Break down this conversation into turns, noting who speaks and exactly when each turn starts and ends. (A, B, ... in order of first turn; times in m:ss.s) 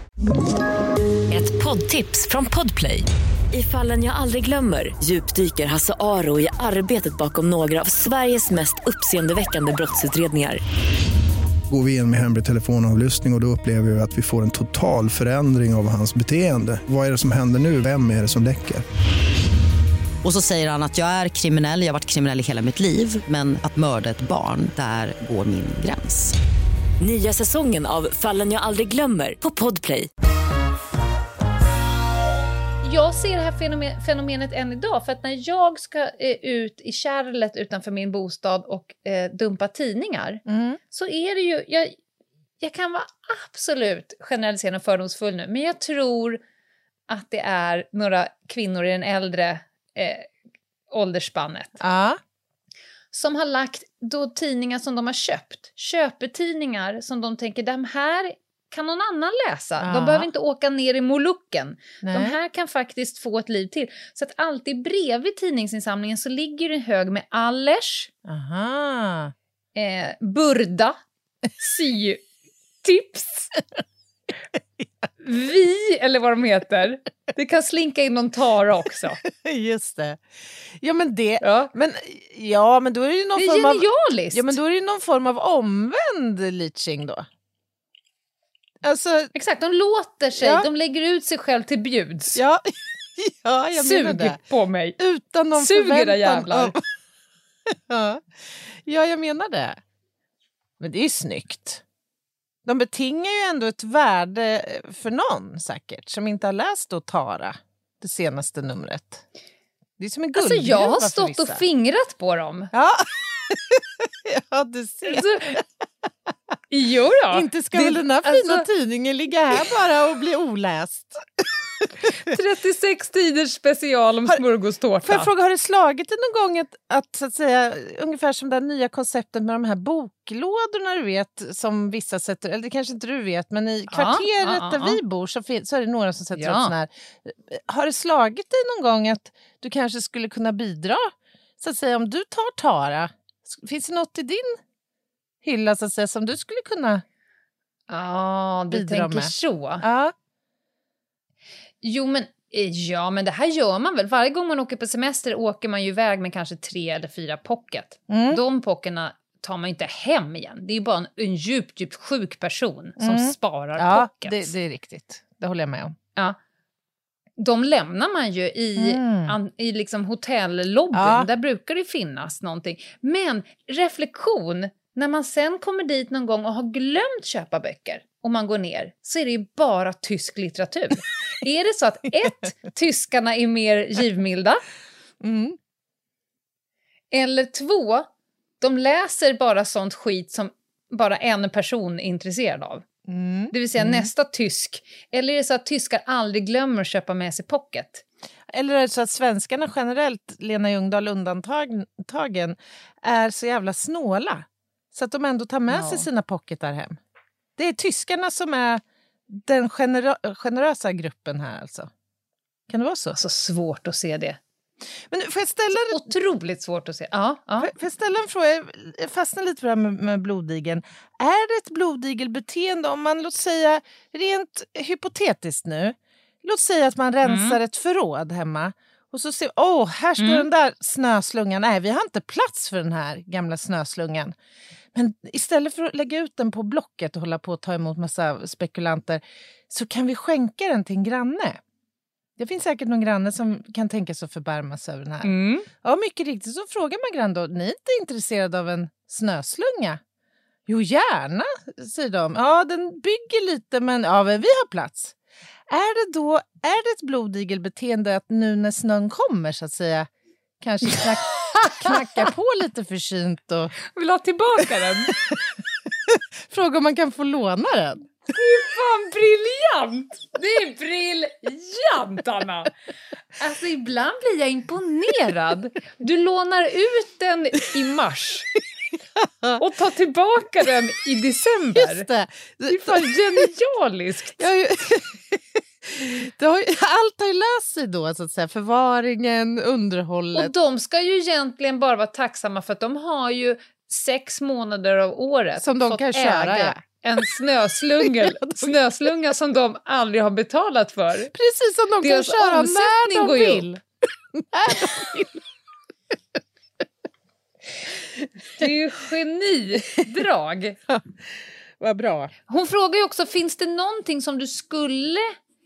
0:01.3-0:10.6 A
0:11.7-0:18.8 B
0:20.2-0:26.4 C
0:27.0-0:30.1 A
0:32.8-0:42.0 D
0:40.5-0:40.8 E
0:42.6-0:46.4 D
0:47.1-0:50.3 D
0:50.9-0:51.8 D
0:51.8-0:52.2 E
0:53.1-1:08.1 D
0:59.8-1:00.3 E
1:02.0-1:02.4 E
1:08.2-1:09.3 E
1:09.8-1:11.0 D
1:11.6-1:12.2 D
1:12.8-1:13.5 D
1:15.2-1:19.2 D
1:19.2-1:20.2 E
1:20.8-1:27.3 E
1:21.4-1:21.7 D
1:23.4-1:24.6 D
1:28.8-1:29.3 E
1:29.3-1:32.4 D
1:30.4-1:30.7 E
1:32.4-1:34.4 E
1:33.8-1:35.0 D
1:35.0-1:36.8 E
1:35.5-1:36.7 D
1:37.7-1:39.8 E
1:40.8-1:41.8 E
1:42.6-1:49.3 E
1:50.0-1:51.6 E
1:50.4-1:52.7 D
1:52.7-1:55.6 E
1:55.1-1:55.6 D
1:56.7-1:58.7 D
1:57.3-2:02.1 E
2:02.2-2:05.3 D
2:05.0-2:24.6 E
2:13.9-2:15.0 D
2:16.4-2:16.7 D
2:25.4-2:27.0 E
2:27.9-2:29.8 D
2:28.7-2:30.1 E
2:31.8-2:44.5 D
2:38.1-2:38.4 E
2:43.0-2:46.0 E
2:47.4-3:04.6 D
2:48.8-2:49.4 E
2:50.9-2:51.3 E
3:05.2-3:05.6 E
3:07.1-3:08.1 D
3:08.6-3:12.8 D
3:13.1-3:14.1 E
3:13.5-3:18.0 D
3:18.5-3:27.0 E
3:25.7-3:26.1 D
3:27.6-3:31.9 E
3:32.7-3:33.2 E
3:33.1-3:34.4 D
3:35.1-3:36.1 E
3:35.9-3:37.7 D
3:37.6-3:54.4 E
3:47.2-3:47.6 D
3:50.2-3:50.5 D
3:54.9-4:01.6 E
4:02.4-4:10.0 E
4:05.2-4:05.7 D
4:10.7-4:15.2 E
4:15.7-4:20.1 E
4:20.6-4:23.7 E
4:21.5-4:22.2 D
4:23.9-4:25.2 D
4:26.1-4:28.1 E
4:28.4-4:32.7 D
4:33.4-4:38.5 D
4:39.2-4:39.6 E
4:39.6-4:42.1 D
4:41.8-4:43.5 E
4:42.7-4:44.4 D
4:44.4-4:50.5 E
4:50.3-5:01.3 D
4:55.6-4:56.8 E
4:58.0-4:58.8 E
5:01.3-5:03.8 E
5:02.0-5:03.7 D
5:04.3-5:05.4 E
5:08.6-5:10.8 D
5:10.9-5:11.2 E
5:11.8-5:12.3 E
5:12.5-5:15.3 D